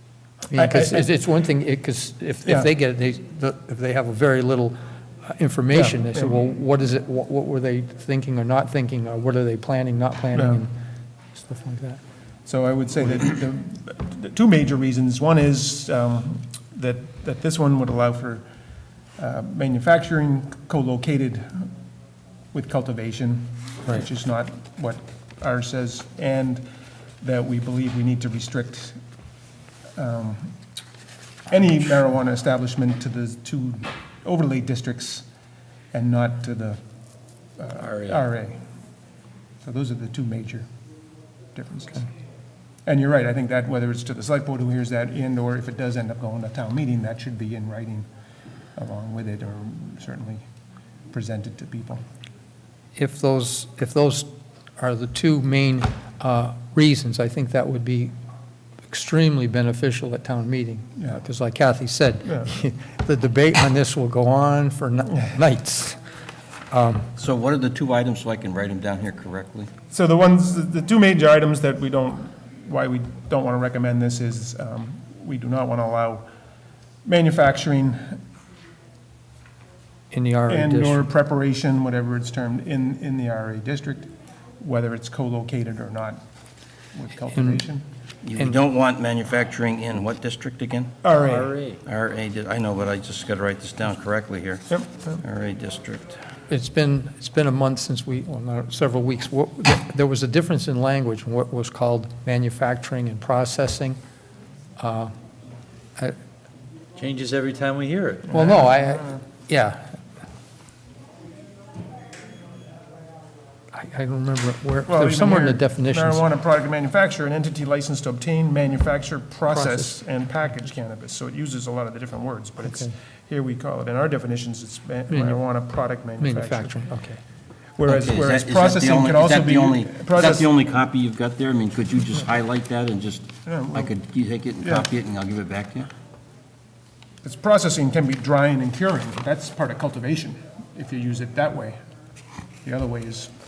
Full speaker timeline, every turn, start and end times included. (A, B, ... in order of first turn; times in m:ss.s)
0:00.5-0:10.8 A
0:00.5-0:01.1 B
0:05.7-0:06.4 B
0:10.4-0:10.6 B
0:11.3-0:12.0 A
0:12.4-0:18.4 B
0:19.2-0:21.7 B
0:22.5-0:26.7 B
0:27.2-0:29.0 B
0:30.0-0:30.6 B
0:31.5-0:35.3 B
0:35.9-0:36.8 B
0:37.6-0:38.6 B
0:37.8-0:38.2 C
0:39.6-0:40.7 B
0:41.5-0:42.1 B
0:42.8-0:48.1 B
0:48.8-0:50.4 B
0:51.1-0:52.0 B
0:52.9-0:58.1 A
0:58.8-1:06.0 A
1:06.7-1:07.1 A
1:07.2-1:09.7 D
1:09.9-1:16.3 B
1:17.0-1:18.2 B
1:20.1-1:21.0 A
1:20.5-1:26.2 B
1:26.9-1:27.8 B
1:27.3-1:27.6 A
1:28.2-1:30.9 D
1:31.0-1:31.6 B
1:31.2-1:31.8 C
1:31.8-1:36.2 D
1:34.7-1:35.2 B
1:36.5-1:44.0 A
1:44.8-1:45.1 A
1:47.0-1:48.4 C
1:48.3-1:50.0 A
1:48.3-1:49.2 B
1:53.7-1:56.2 A
1:54.9-2:06.7 B
1:59.5-2:00.0 A
2:02.6-2:02.9 A
2:05.1-2:05.6 A
2:06.2-2:07.2 A
2:07.8-2:10.5 B
2:07.8-2:15.9 D
2:13.4-2:13.9 B
2:17.2-2:21.8 B
2:22.6-2:23.3 B